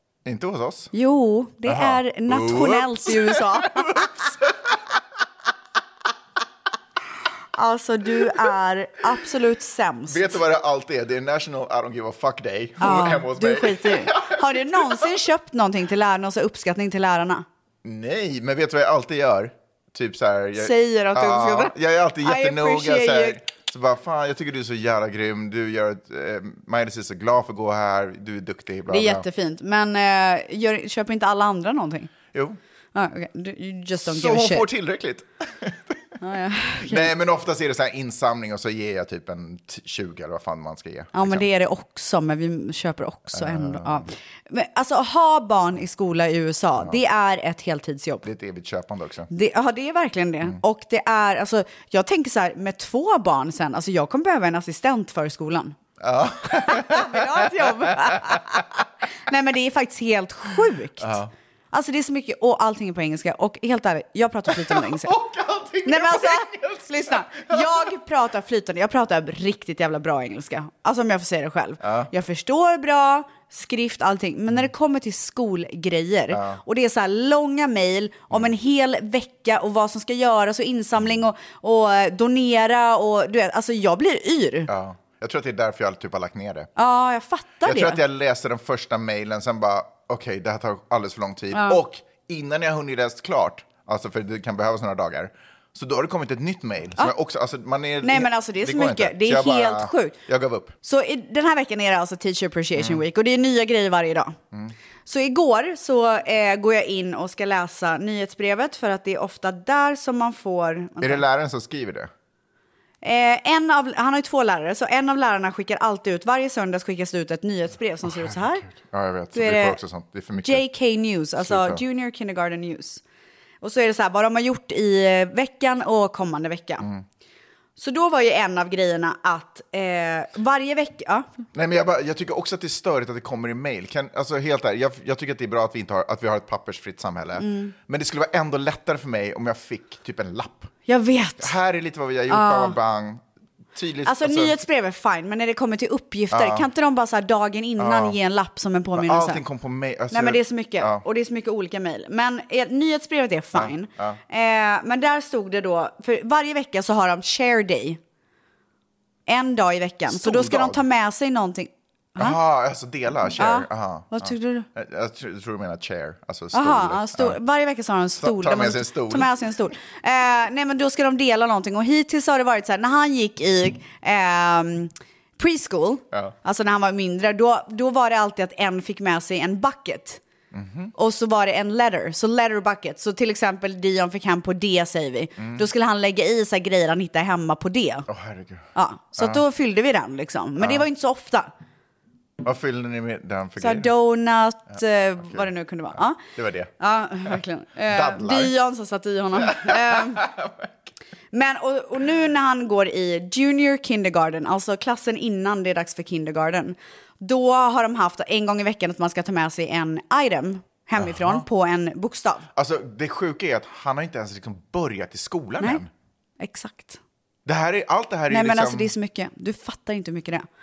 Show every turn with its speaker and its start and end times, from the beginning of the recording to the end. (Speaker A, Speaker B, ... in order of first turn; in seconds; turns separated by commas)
Speaker A: 0.2-0.9, Speaker B: 0.9-4.2, Speaker A: 1.6-4.8, Speaker B: 7.5-10.4, Speaker A: 10.1-15.1, Speaker B: 12.8-17.4, Speaker A: 17.8-29.2, Speaker B: 20.6-23.4, Speaker B: 28.9-32.1, Speaker A: 32.3-32.6, Speaker B: 32.9-34.6, Speaker A: 34.0-36.0, Speaker B: 36.2-37.1, Speaker A: 36.8-41.5, Speaker B: 41.1-48.3, Speaker A: 43.3-44.1, Speaker A: 48.2-49.3, Speaker B: 49.3-55.7, Speaker A: 56.0-58.8, Speaker B: 56.5-61.2, Speaker A: 61.0-61.3, Speaker B: 61.7-65.1, Speaker A: 64.5-67.9, Speaker B: 65.8-84.7, Speaker A: 71.8-72.1, Speaker A: 76.3-76.6, Speaker A: 84.7-86.7, Speaker B: 86.8-88.0, Speaker A: 87.6-100.7, Speaker B: 91.5-91.8, Speaker B: 98.0-100.1, Speaker B: 100.8-104.3, Speaker A: 102.8-103.0, Speaker B: 105.0-111.2, Speaker A: 111.0-112.1, Speaker B: 113.0-118.7, Speaker A: 118.0-120.7, Speaker B: 119.3-119.8, Speaker B: 120.3-123.0, Speaker A: 121.4-121.8, Speaker B: 123.6-126.8, Speaker B: 127.8-131.2, Speaker A: 131.5-140.7, Speaker B: 137.4-137.7, Speaker B: 140.8-141.5, Speaker A: 141.4-143.2, Speaker B: 142.3-142.8, Speaker A: 143.7-144.5, Speaker B: 144.0-149.4, Speaker A: 146.3-146.7, Speaker A: 147.8-148.2, Speaker A: 149.0-151.0, Speaker B: 150.1-158.0, Speaker A: 153.5-154.2, Speaker B: 159.3-162.4, Speaker A: 160.1-160.8, Speaker A: 162.2-167.4, Speaker B: 163.4-164.7, Speaker B: 166.5-180.2, Speaker A: 168.2-169.3, Speaker A: 180.5-180.9, Speaker B: 180.9-188.1, Speaker A: 185.4-185.6, Speaker A: 188.1-189.4, Speaker B: 188.7-191.5, Speaker A: 190.6-190.8, Speaker A: 192.4-193.9, Speaker B: 193.6-196.2, Speaker A: 194.7-195.5, Speaker A: 196.2-196.7, Speaker B: 196.8-200.2, Speaker A: 197.9-198.5, Speaker A: 199.4-200.7, Speaker B: 201.3-212.4, Speaker A: 211.0-211.4, Speaker A: 212.5-215.9, Speaker B: 216.4-217.0, Speaker A: 217.4-218.9, Speaker B: 218.3-220.4